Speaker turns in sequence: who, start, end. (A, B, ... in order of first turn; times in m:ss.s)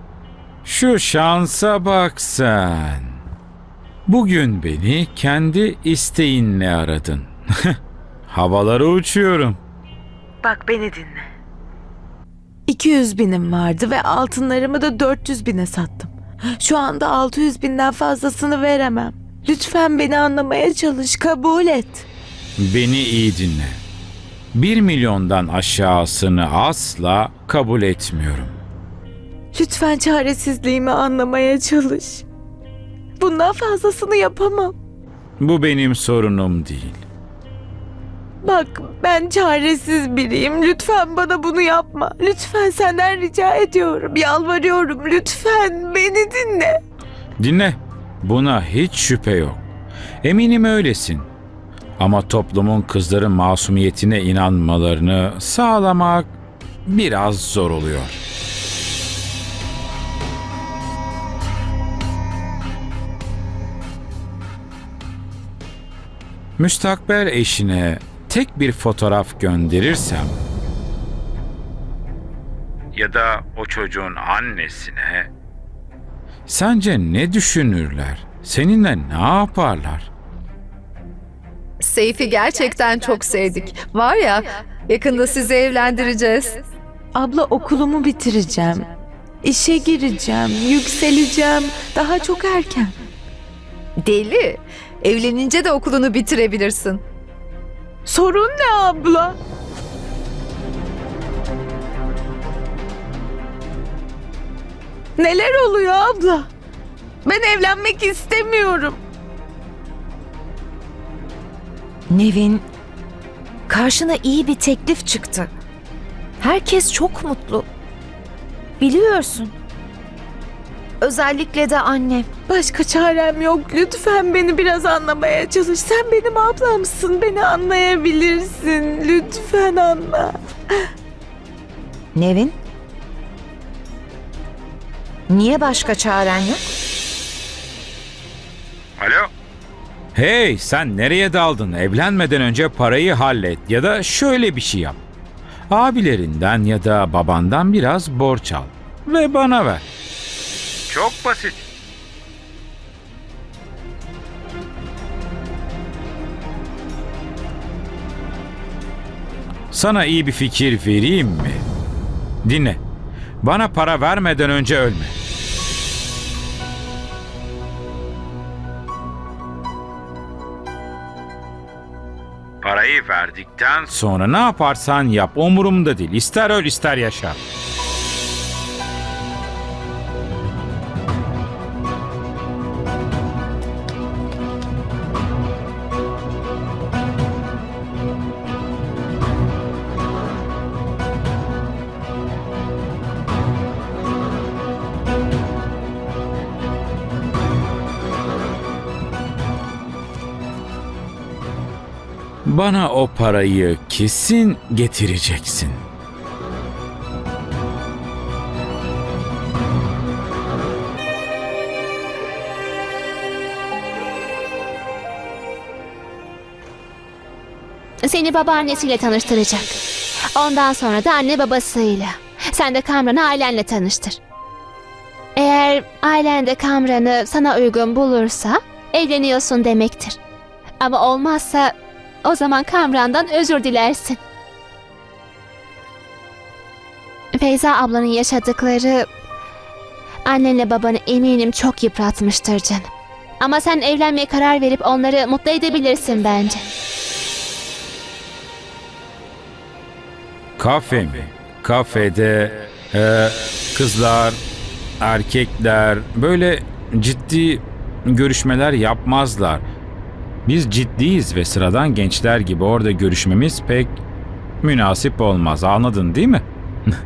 0:00.6-0:03.2 A
0:04.1-0:07.8 A
0:08.3-0:09.6 A
0:10.4-0:11.2 B
0:12.7-0:22.1 B
0:22.6-0:23.8 A
0:24.5-0:28.6 A
0:29.5-0:32.2 B
0:33.2-0:34.7 B
0:35.4-0:37.0 A
0:38.4-0:46.8 B
0:47.4-0:49.6 A
0:50.2-0:51.3 A
0:52.0-0:56.3 A
0:56.9-0:58.2 A
1:06.6-1:10.4 A
1:12.9-1:15.3 A
1:16.5-1:20.1 A
1:21.8-1:26.7 C
1:27.2-1:32.9 B
1:34.0-1:37.0 C
1:38.0-1:39.4 B
1:45.2-1:46.5 B
1:47.2-1:49.0 B
1:52.1-1:52.6 D
1:53.7-1:55.5 D
1:56.4-1:57.7 D
1:58.8-1:59.5 D
2:01.0-2:02.3 D
2:02.5-2:10.4 B
2:12.2-2:12.6 D
2:15.3-2:16.6 D
2:19.0-2:19.3 A
2:20.2-2:25.0 A
2:25.7-2:29.8 A
2:30.9-2:31.7 A
2:39.7-2:41.6 A
2:42.4-2:42.8 A
2:43.4-2:45.2 A
2:52.6-2:57.4 A
3:22.4-3:25.8 A
3:38.0-3:39.8 E
3:40.4-3:44.2 E
3:45.4-3:50.2 E
3:50.8-3:54.2 E
3:57.3-3:59.1 E
4:00.2-4:02.9 E
4:03.4-4:06.7 E
4:10.6-4:14.4 A
4:15.0-4:19.6 A
4:20.5-4:24.0 A
4:24.6-4:26.4 A